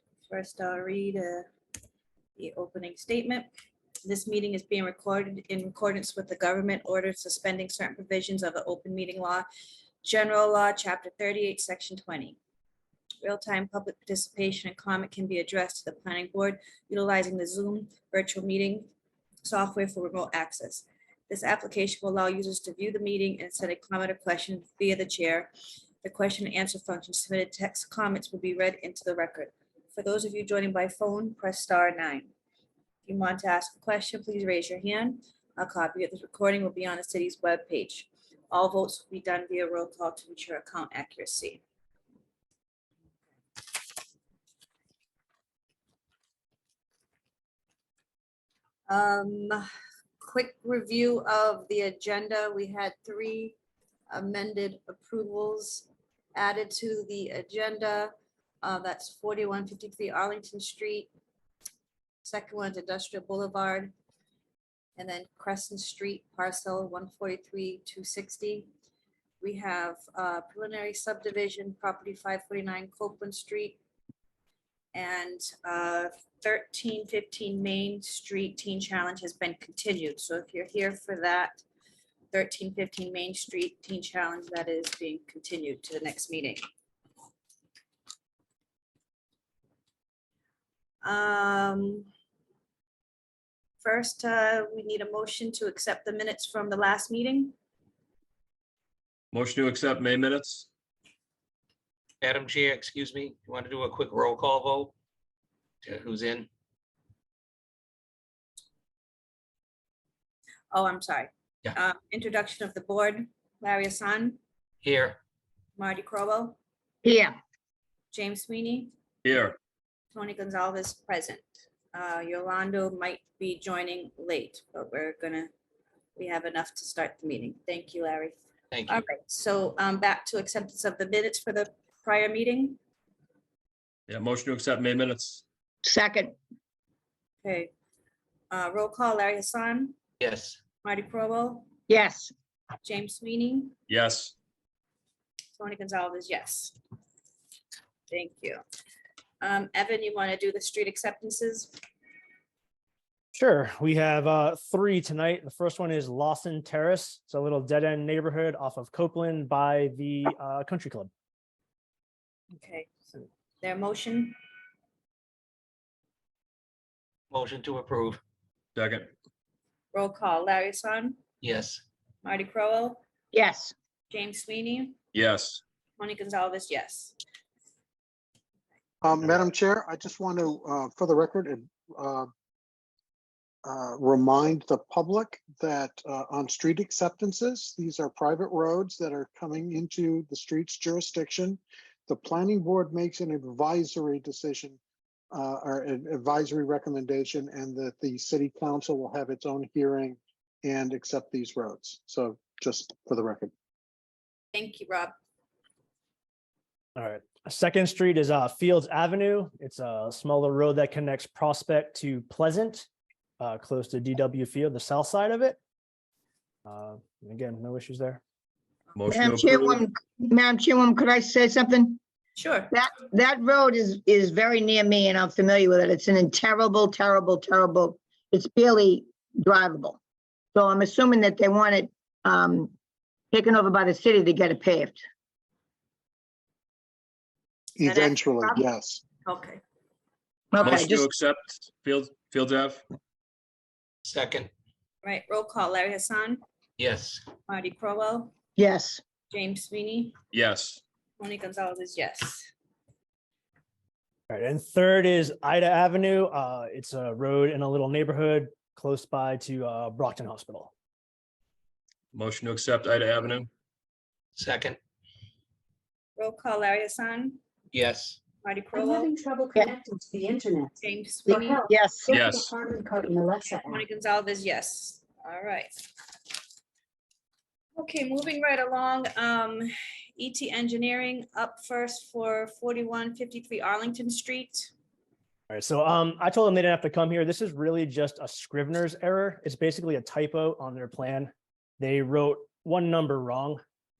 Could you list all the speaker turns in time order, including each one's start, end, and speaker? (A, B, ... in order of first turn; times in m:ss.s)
0:00.3-0:01.5 A
0:02.4-0:03.5 A
0:04.0-0:09.5 A
0:10.0-0:12.4 A
0:13.2-0:18.9 A
0:19.4-0:25.5 A
0:26.0-0:32.3 A
0:33.0-0:41.6 A
0:48.9-0:49.6 A
0:50.2-0:53.6 A
0:54.1-0:58.1 A
0:58.6-1:01.1 A
1:02.2-1:03.9 A
1:05.0-1:08.7 A
1:09.4-1:13.8 A
1:14.9-1:21.6 A
1:22.3-1:26.6 A
1:31.0-1:32.1 A
1:33.8-1:37.5 A
1:39.3-1:40.7 B
1:42.2-1:44.9 C
1:45.8-1:46.5 C
1:50.7-1:54.4 A
1:54.8-1:55.2 C
1:55.8-1:56.6 A
1:57.0-1:57.4 D
1:58.1-1:58.9 A
1:59.2-1:59.6 B
2:00.1-2:05.5 A
2:06.2-2:08.4 A
2:08.7-2:09.0 C
2:08.9-2:12.8 A
2:14.1-2:15.4 B
2:15.8-2:16.3 D
2:17.4-2:17.7 A
2:18.5-2:20.0 A
2:20.2-2:20.6 C
2:20.8-2:21.7 A
2:21.9-2:22.3 D
2:22.8-2:23.7 A
2:23.9-2:24.3 B
2:25.5-2:26.8 A
2:28.1-2:28.6 A
2:29.4-2:31.8 A
2:33.3-2:41.1 E
2:42.6-2:42.9 A
2:43.6-2:44.4 A
2:47.3-2:48.2 C
2:48.7-2:49.1 B
2:49.9-2:51.2 A
2:51.4-2:51.8 C
2:52.2-2:53.0 A
2:53.3-2:53.7 D
2:54.1-2:55.0 A
2:55.1-2:55.6 B
2:56.0-2:57.2 A
2:59.0-3:02.3 F
3:03.6-3:14.8 F
3:15.3-3:23.5 F
3:24.5-3:25.1 A
3:27.0-3:32.9 E
3:33.4-3:35.6 E
3:36.6-3:38.2 E
3:39.0-3:39.8 B
3:39.1-3:42.0 D
3:42.4-3:42.7 A
3:42.7-3:50.0 D
3:50.5-3:52.7 D
3:53.3-3:55.0 D
3:57.8-3:59.0 F
3:57.8-3:58.6 A
3:59.2-3:59.6 A
4:00.5-4:01.0 D
4:00.6-4:02.8 B
4:04.0-4:04.5 C
4:05.0-4:06.4 A
4:06.8-4:07.2 C
4:07.5-4:08.3 A
4:08.6-4:09.0 D
4:09.3-4:10.2 A
4:10.3-4:10.8 B
4:11.2-4:12.5 A
4:14.3-4:20.7 E
4:22.1-4:23.5 B
4:24.4-4:24.8 C
4:26.2-4:27.4 A
4:27.7-4:28.2 C
4:28.4-4:29.1 A
4:29.0-4:30.7 G
4:30.8-4:31.6 A
4:31.5-4:33.6 G
4:31.7-4:32.1 D
4:32.1-4:32.5 B
4:33.4-4:35.7 A
4:37.8-4:44.7 A
4:45.5-4:53.6 E